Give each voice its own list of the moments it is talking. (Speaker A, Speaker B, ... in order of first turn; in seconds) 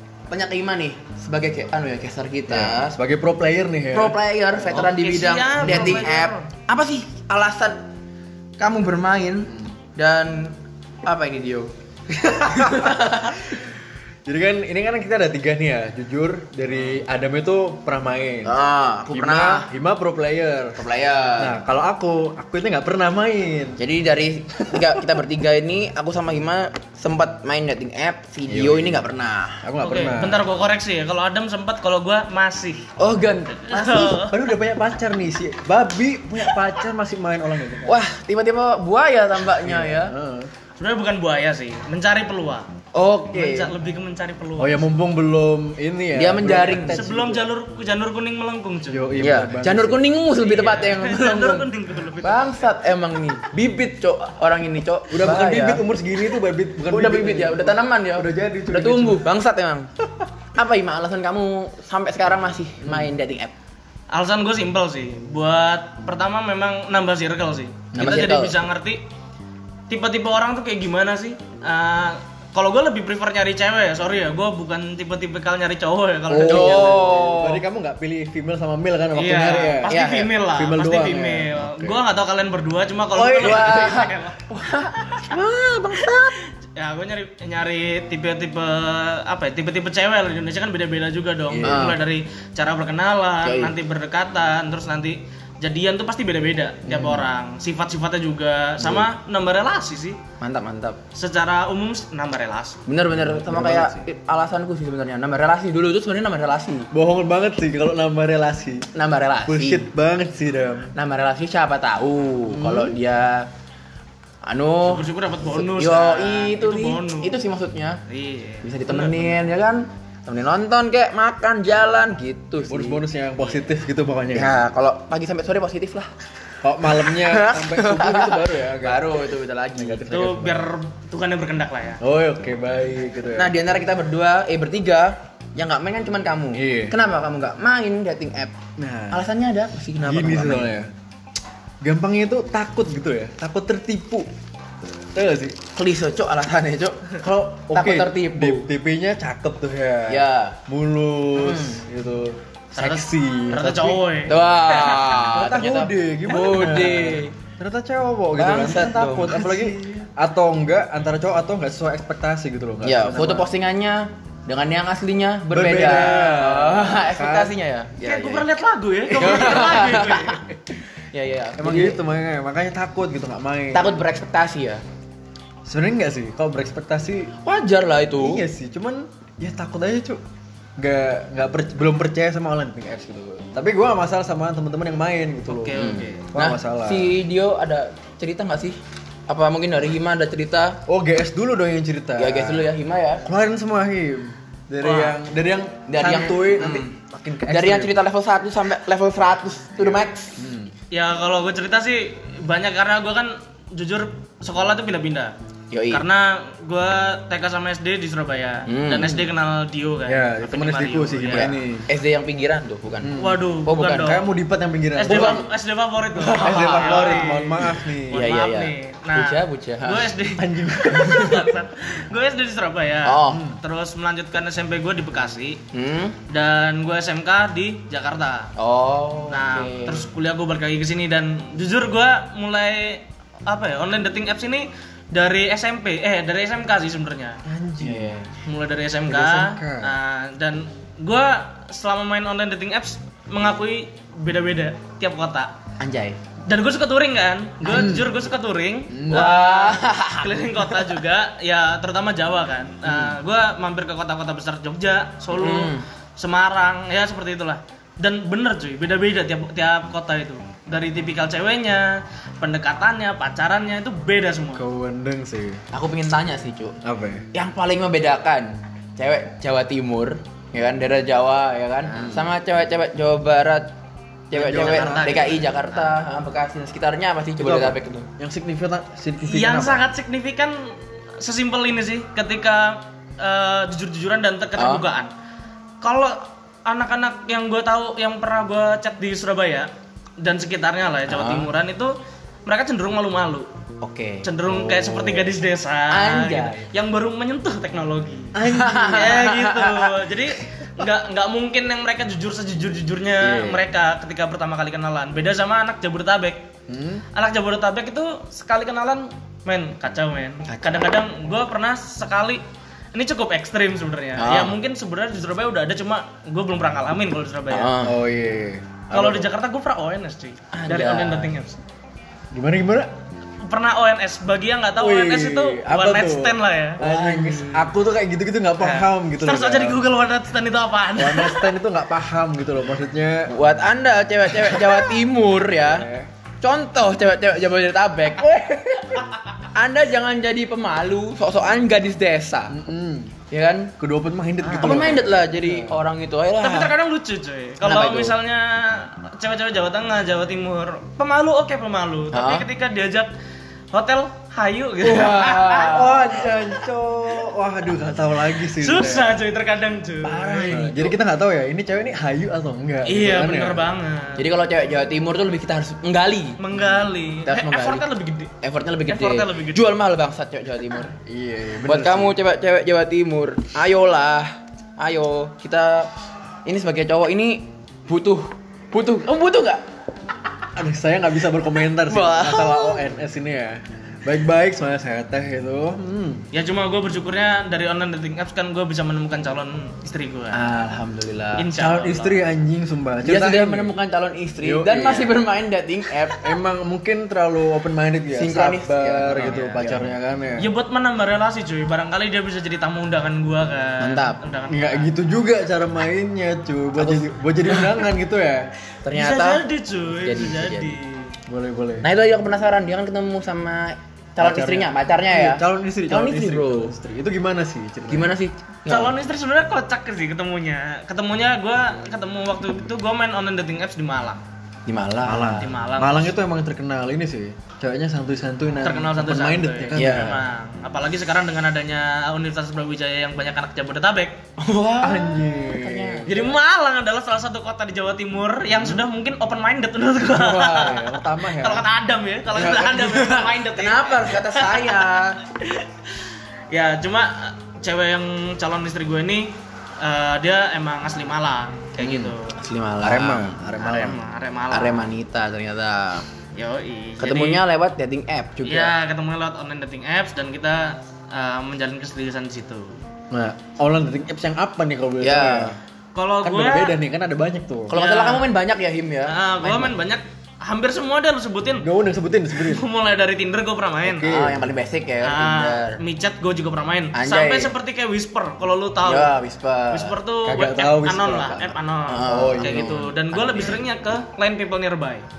Speaker A: 0.3-2.9, 3.9-7.8, 8.6-13.5, 18.4-19.7, 20.8-21.6, 23.8-29.6, 33.0-34.2, 37.9-40.1, 42.9-43.7, 46.1-47.0, 49.2-51.7, 52.2-55.8, 56.9-59.9, 60.5-63.5, 67.9-68.6, 76.3-77.6, 79.9-80.3, 83.4-86.3, 91.6-92.0, 93.4-93.7, 100.4-101.0, 102.8-106.9, 108.9-109.8, 110.9-113.5, 114.5-118.0, 118.6-123.0, 124.3-126.1, 126.9-130.1, 133.3-138.6, 139.1-140.7, 145.7-147.1, 147.7-148.7, 150.1-150.6, 151.3-151.8, 154.2-157.3, 158.3-159.7, 162.8-168.4, 169.1-170.6, 171.1-172.0, 173.7-174.8, 177.4-178.4, 185.7-190.8, 192.2-193.2, 195.9-197.0, 197.5-200.3, 205.7-206.0, 208.7-209.3, 211.3-214.2, 215.1-215.5, 216.1-220.1, 223.0-223.4, 225.7-226.2, 228.6-230.1, 237.8-238.3, 245.8-246.2, 247.7-247.9, 249.1-250.9, 255.3-255.8, 265.7-266.8, 267.3-273.7, 274.3-278.1, 284.5-284.9, 291.1-291.5, 293.8-294.3, 295.9-296.6, 298.4-300.1, 310.5-310.8, 314.2-314.6, 317.5-317.9, 320.5-321.3, 326.8-327.7, 333.3-335.9, 336.4-342.5, 343.3-343.7, 344.5-346.7, 347.6-348.1, 352.1-352.5, 354.8-356.3, 364.2-366.4, 367.2-367.9, 368.4-370.9, 371.6-375.9, 376.4-379.6, 381.9-382.8, 390.3-391.5, 393.0-396.2, 398.1-399.9, 403.8-404.2, 406.8-407.8, 408.8-410.8, 411.8-416.7, 417.9-418.9, 424.7-425.5, 429.8-430.1, 434.4-436.1, 442.3-445.2, 451.8-453.4, 454.5-456.1, 457.0-458.7, 465.0-465.6, 467.7-469.7, 474.1-475.8, 476.9-477.5, 478.8-479.9, 481.9-483.6
Speaker B: 2.5-4.2, 5.6-6.1, 12.1-13.6, 14.2-18.6, 19.1-20.8, 21.4-23.8, 24.7-25.0, 28.5-29.0, 29.6-30.5, 34.2-38.0, 39.6-40.5, 44.6-47.5, 48.9-50.0, 55.1-59.2, 62.8-63.1, 76.4-79.9, 80.5-82.0, 83.1-84.0, 85.3-86.2, 91.5-91.9, 96.8-97.2, 98.8-99.1, 103.4-104.0, 106.9-108.9, 109.5-110.9, 112.5-113.0, 122.6-124.5, 126.6-129.1, 129.8-130.7, 132.0-133.5, 136.5-136.9, 138.8-139.2, 140.0-140.9, 141.8-144.3, 145.1-145.6, 147.2-154.2, 155.0-163.5, 165.5-167.5, 171.6-174.0, 175.7-177.3, 178.2-180.2, 180.8-187.1, 190.9-192.6, 193.2-197.9, 199.8-200.7, 210.1-211.9, 213.0-215.5, 216.3-218.3, 220.4-221.5, 223.3-223.6, 237.4-238.2, 239.1-239.9, 247.6-248.1, 248.9-249.3, 264.5-265.6, 266.8-267.2, 271.9-272.3, 274.3-275.4, 277.4-279.9, 294.4-295.4, 298.3-299.1, 303.2-303.6, 306.7-307.0, 317.8-319.3, 322.3-322.9, 324.8-329.8, 330.9-333.3, 334.3-334.9, 335.6-336.1, 342.5-343.1, 343.8-345.8, 355.7-359.2, 360.0-363.7, 371.0-372.2, 380.5-386.2, 391.5-393.7, 394.4-395.2, 396.2-400.4, 404.5-408.5, 411.3-411.9, 414.2-418.1, 425.1-430.2, 434.8-436.4, 438.6-438.8, 440.1-441.7, 452.8-454.0, 463.1-465.6, 466.2-467.7, 471.6-472.6, 473.8-474.5, 480.2-482.9
Speaker C: 4.7-6.5, 29.8-32.9, 33.6-34.5, 40.8-42.7, 43.3-44.8, 46.6-49.1, 50.4-52.7, 64.1-69.0, 69.9-77.0, 79.2-84.4, 86.7-100.2, 101.1-102.8, 114.8-117.4, 118.1-119.3, 123.4-123.7, 130.1-132.0, 152.8-154.4, 168.0-170.4, 185.5-186.2, 194.8-195.2, 200.9-205.3, 205.9-211.5, 213.2-214.3, 214.9-225.6, 226.3-228.5, 229.3-237.4, 238.4-245.5, 246.5-264.6, 274.5-275.4, 279.3-285.1, 285.8-289.7, 290.2-291.9, 292.4-293.5, 294.2-306.4, 307.1-312.4, 312.9-317.7, 318.9-321.6, 323.4-326.8, 328.6-331.5, 344.4-344.8, 346.4-353.1, 353.7-355.9, 358.3-360.9, 362.9-364.2, 366.4-368.3, 368.9-369.6, 386.3-390.4, 391.4-392.2, 399.2-399.6, 400.4-404.9, 408.9-411.1, 418.7-424.2, 425.4-426.1, 428.6-434.1, 436.1-444.9, 445.4-445.9, 446.5-452.3, 453.6-454.9, 456.3-457.4, 458.4-462.8, 465.9-466.8, 467.7-468.3, 469.1-471.6, 472.3-474.1, 475.0-479.1, 479.7-485.1